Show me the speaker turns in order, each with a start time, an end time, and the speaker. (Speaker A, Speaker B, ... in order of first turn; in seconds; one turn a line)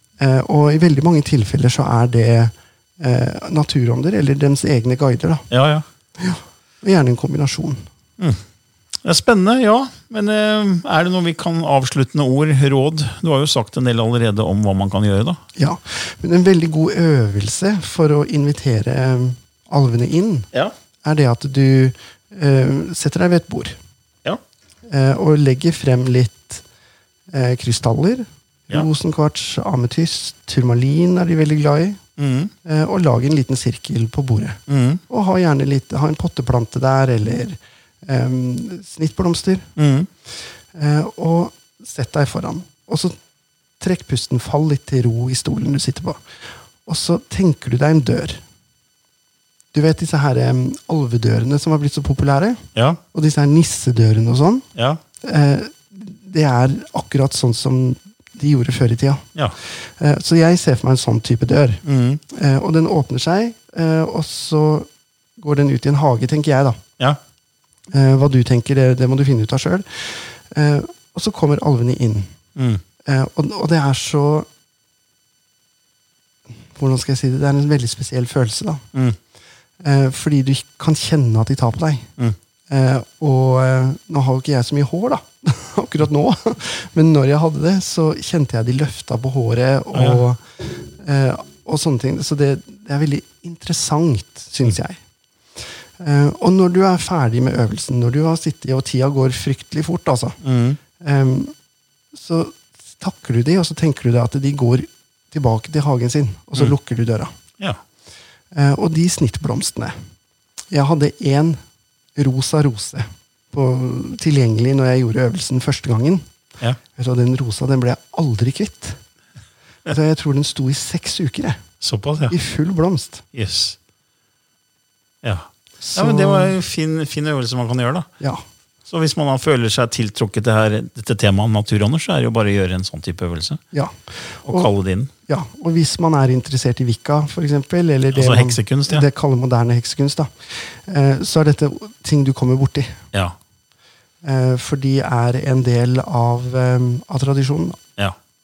Speaker A: 0.2-5.5
Speaker B: 5.5-5.9
Speaker A: 6.2-7.9
Speaker B: 9.1-15.4
Speaker A: 15.6-20.5
Speaker A: 21.0-23.8
Speaker A: 24.9-26.6
Speaker A: 27.3-32.0
Speaker B: 32.2-32.5
Speaker A: 32.6-39.7
Speaker B: 34.7-35.0
Speaker B: 39.8-40.1
Speaker A: 40.7-43.2
Speaker A: 43.8-46.2
Speaker A: 46.9-48.4
Speaker A: 49.7-54.7
Speaker B: 52.8-53.0
Speaker B: 54.8-55.0
Speaker A: 55.2-66.8
Speaker B: 61.9-62.2
Speaker A: 67.9-72.3
Speaker B: 72.6-72.8
Speaker A: 73.0-74.5
Speaker A: 76.8-78.8
Speaker A: 79.8-82.1
Speaker A: 82.7-95.0
Speaker B: 89.9-90.2
Speaker A: 95.6-100.4
Speaker B: 100.4-100.8
Speaker A: 101.0-101.5
Speaker A: 102.1-107.3
Speaker A: 108.5-110.0
Speaker A: 110.7-111.6
Speaker A: 112.2-116.3
Speaker A: 117.0-119.0
Speaker A: 119.9-121.6
Speaker B: 121.8-122.3
Speaker A: 122.3-123.2
Speaker B: 123.3-123.8
Speaker B: 125.2-128.1
Speaker A: 125.8-126.6
Speaker B: 128.9-133.6
Speaker A: 133.7-134.7
Speaker B: 134.4-135.1
Speaker A: 135.3-143.0
Speaker B: 138.1-139.1
Speaker A: 144.2-147.8